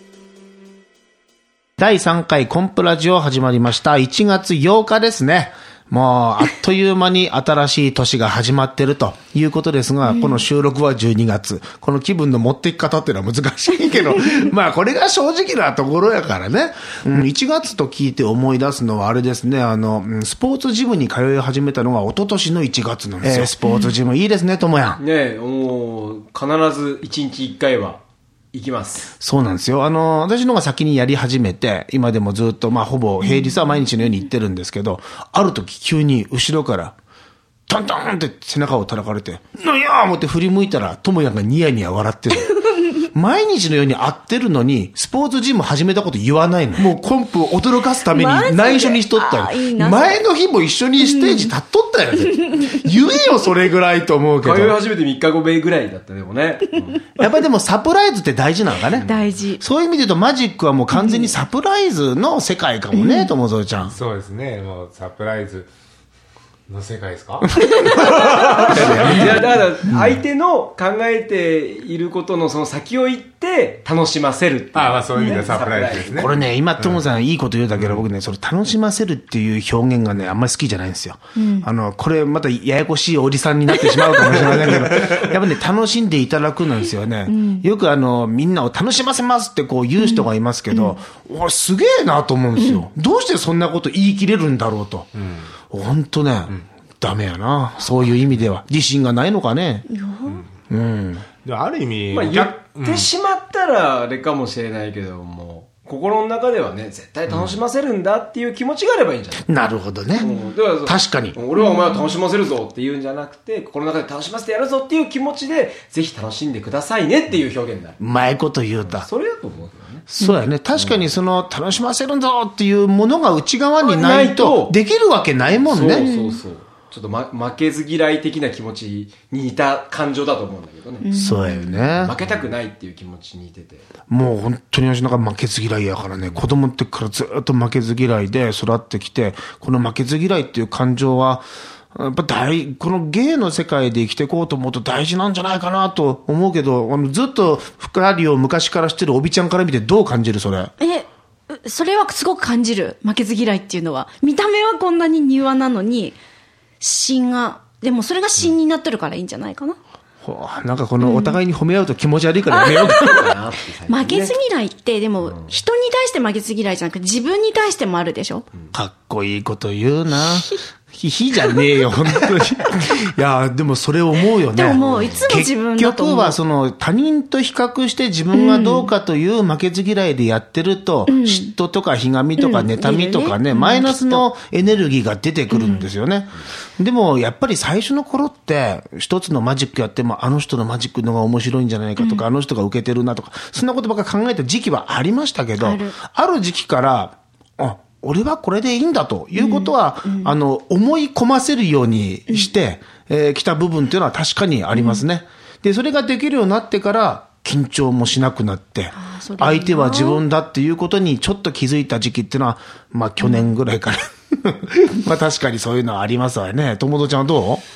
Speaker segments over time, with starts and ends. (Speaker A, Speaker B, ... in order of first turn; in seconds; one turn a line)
Speaker A: 1.8-25.0
Speaker B: 10.1-10.4
Speaker B: 23.6-23.9
Speaker C: 25.0-28.0
Speaker C: 28.5-29.1
Speaker A: 29.2-37.0
Speaker B: 33.2-33.6
Speaker A: 37.7-54.8
Speaker B: 48.1-50.2
Speaker B: 51.0-51.5
Speaker C: 54.4-57.0
Speaker A: 57.2-64.0
Speaker C: 58.9-59.2
Speaker B: 59.0-59.6
Speaker B: 62.9-63.3
Speaker D: 63.9-65.7
Speaker D: 66.7-67.5
Speaker A: 67.6-69.3
Speaker B: 67.8-68.3
Speaker C: 68.0-76.2
Speaker D: 68.6-69.5
Speaker D: 74.7-77.0
Speaker B: 75.2-75.5
Speaker A: 76.2-95.1
Speaker D: 77.8-78.0
Speaker B: 81.4-81.7
Speaker B: 83.7-84.4
Speaker B: 87.3-87.7
Speaker B: 90.0-91.0
Speaker D: 95.2-95.5
Speaker A: 95.7-99.9
Speaker B: 99.9-100.4
Speaker A: 100.7-101.3
Speaker D: 101.4-103.1
Speaker C: 102.1-109.5
Speaker D: 107.3-107.6
Speaker A: 109.5-110.3
Speaker C: 110.2-118.0
Speaker A: 110.8-111.4
Speaker B: 111.6-112.0
Speaker A: 118.0-119.1
Speaker C: 118.8-120.1
Speaker A: 120.1-126.1
Speaker C: 120.8-121.1
Speaker C: 123.8-124.8
Speaker C: 125.5-131.1
Speaker B: 126.0-126.4
Speaker B: 131.0-131.9
Speaker A: 131.2-132.1
Speaker C: 131.9-133.9
Speaker A: 134.1-150.7
Speaker B: 150.8-156.2
Speaker B: 156.8-159.8
Speaker A: 160.2-163.3
Speaker B: 161.0-161.4
Speaker B: 162.5-163.2
Speaker C: 162.7-164.3
Speaker B: 163.9-168.4
Speaker C: 165.2-165.5
Speaker A: 168.7-217.6
Speaker B: 174.5-176.4
Speaker C: 174.8-175.3
Speaker B: 178.3-178.9
Speaker B: 181.1-181.5
Speaker B: 182.4-184.2
Speaker B: 185.5-185.9
Speaker B: 192.0-192.2
Speaker B: 195.6-196.0
Speaker B: 199.4-200.3
Speaker B: 204.7-205.0
Speaker B: 209.0-210.2
Speaker B: 213.2-213.5